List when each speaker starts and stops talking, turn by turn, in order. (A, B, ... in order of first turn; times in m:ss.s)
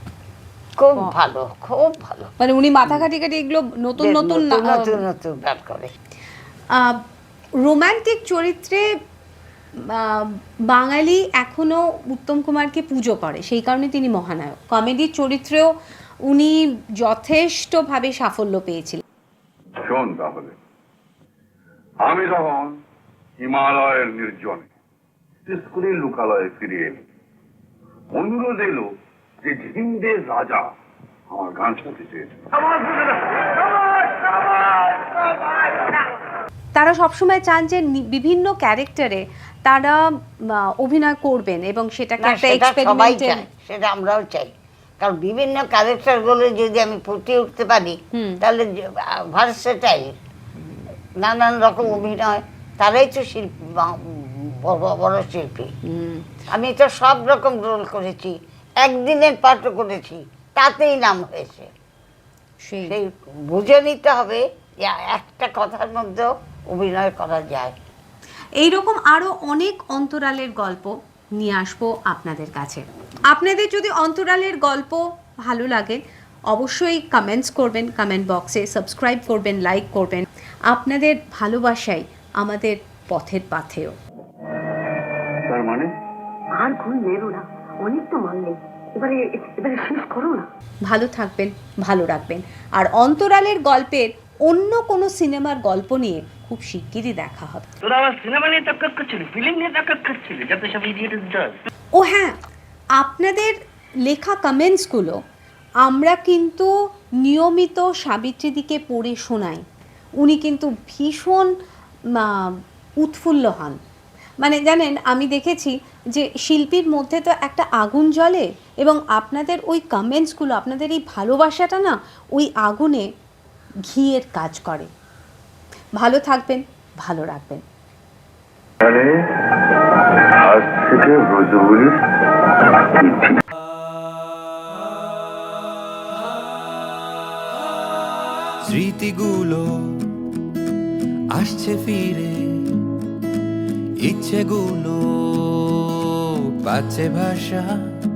0:00.8-0:02.3 A
0:02.4-0:04.9 B
0:04.0-0:05.9 A
0:06.7-0:07.0 B
0:07.6-0:08.8 B
0:09.8-0:15.7 B
0:16.3-0:19.0 B
0:19.8-0:20.5 C
0:22.0-0:22.8 C
0:23.4-0:24.7 C
0:25.4-0:27.0 C
0:28.1-0:28.9 C
0:29.4-0:30.7 C
0:31.3-0:33.0 C
0:33.6-0:35.2 C
0:36.8-0:40.0 B
0:40.8-0:43.4 B
0:42.2-0:50.1 A
0:48.1-0:48.4 B
0:51.2-0:55.7 A
0:55.8-0:56.3 B
0:56.5-1:01.7 A
1:02.6-1:03.0 B
1:02.8-1:07.7 A
1:08.6-1:23.9 B
1:25.4-1:25.9 C
1:26.6-1:30.4 D
1:30.9-1:37.6 B
1:37.8-1:39.9 E
1:40.5-1:41.5 E
1:42.0-1:42.3 B
1:43.0-1:43.5 B
1:44.1-1:45.2 B
1:45.8-1:46.7 B
1:47.2-1:49.6 B
1:50.2-1:51.5 B
1:52.2-1:53.8 B
1:54.4-2:03.1 B
2:03.9-2:04.9 B
2:06.0-2:07.6 B
2:08.8-2:09.1 C
2:10.5-2:11.9 C
2:18.7-2:19.6 F
2:21.3-2:22.3 F
2:24.0-2:25.8 F
2:26.6-2:27.7 F